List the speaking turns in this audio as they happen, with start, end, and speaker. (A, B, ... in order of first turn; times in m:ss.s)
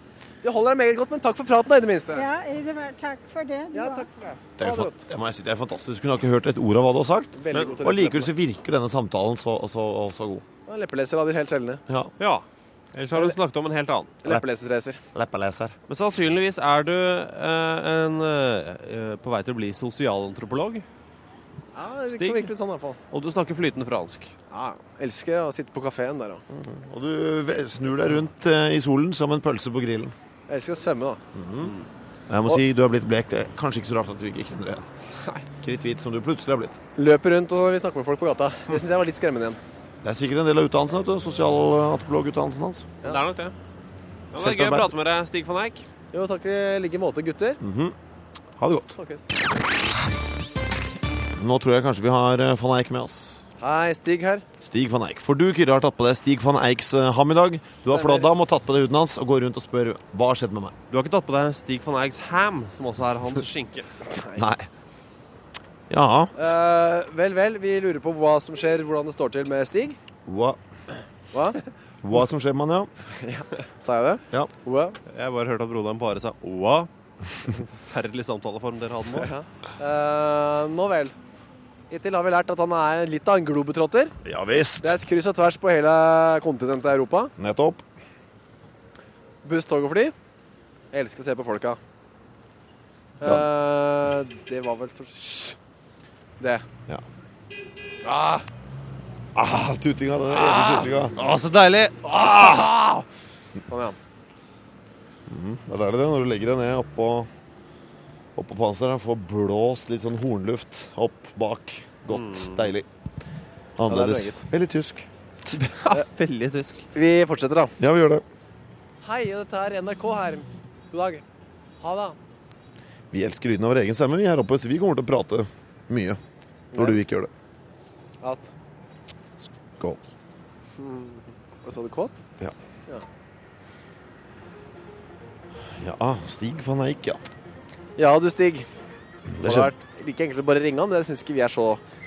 0:00.4-0:02.3 A
0:02.1-0:04.1 B
0:03.7-0:05.1 A
0:04.6-0:10.4 C
0:07.4-0:08.3 A
0:10.7-0:11.8 A
0:11.9-0:12.1 C
0:12.2-0:14.1 D
0:14.2-0:15.0 A
0:15.1-0:15.8 C
0:15.9-0:20.8 D
0:21.8-0:23.0 A
0:22.1-0:22.5 D
0:23.1-0:24.3 D
0:24.5-0:26.4 A
0:26.5-0:30.1 C
0:30.5-0:31.2 A
0:31.3-0:31.8 C
0:31.6-0:31.9 D
0:32.3-0:34.9 C
0:35.6-0:36.8 C
0:37.0-0:39.6 A
0:40.0-0:42.9 C
0:43.0-0:43.6 D
0:44.3-0:45.9 D
0:44.3-0:44.9 C
0:46.1-0:47.6 A
0:47.6-0:48.0 C
0:48.6-0:49.0 C
0:48.7-0:49.3 A
0:51.4-0:53.4 C
0:53.6-0:54.4 A
0:54.6-1:00.8 C
0:57.9-0:58.3 A
1:00.9-1:03.9 D
1:04.1-1:04.4 A
1:04.4-1:04.7 C
1:05.9-1:06.5 C
1:06.4-1:10.0 A
1:10.3-1:10.6 C
1:11.3-1:11.6 A
1:12.0-1:12.9 C
1:13.2-1:15.0 A
1:15.1-1:16.9 D
1:17.4-1:19.3 D
1:19.1-1:21.2 A
1:21.9-1:24.2 A
1:24.2-1:25.0 C
1:24.8-1:27.3 A
1:27.4-1:27.8 C
1:29.4-1:30.1 A
1:30.9-1:31.8 A
1:33.2-1:35.6 A
1:36.4-1:36.6 A
1:38.0-1:38.5 A
1:39.4-1:41.1 C
1:40.4-1:40.9 A
1:40.7-1:42.5 D
1:42.0-1:43.0 A
1:43.7-1:44.0 A
1:45.3-1:47.3 C
1:48.4-1:52.9 C
1:52.1-1:52.7 D
1:53.8-1:55.1 C
1:53.9-1:54.4 A
1:55.5-1:56.9 D
1:56.9-1:57.7 A
1:57.8-1:58.2 C
1:59.0-2:01.2 A
2:01.8-2:02.2 A
2:03.1-2:06.2 C
2:06.7-2:07.0 A
2:06.7-2:07.3 C
2:08.2-2:08.5 A
2:09.4-2:10.0 C
2:10.8-2:12.2 A
2:15.6-2:17.2 C
2:18.0-2:18.7 A
2:19.3-2:19.7 C
2:19.4-2:21.8 A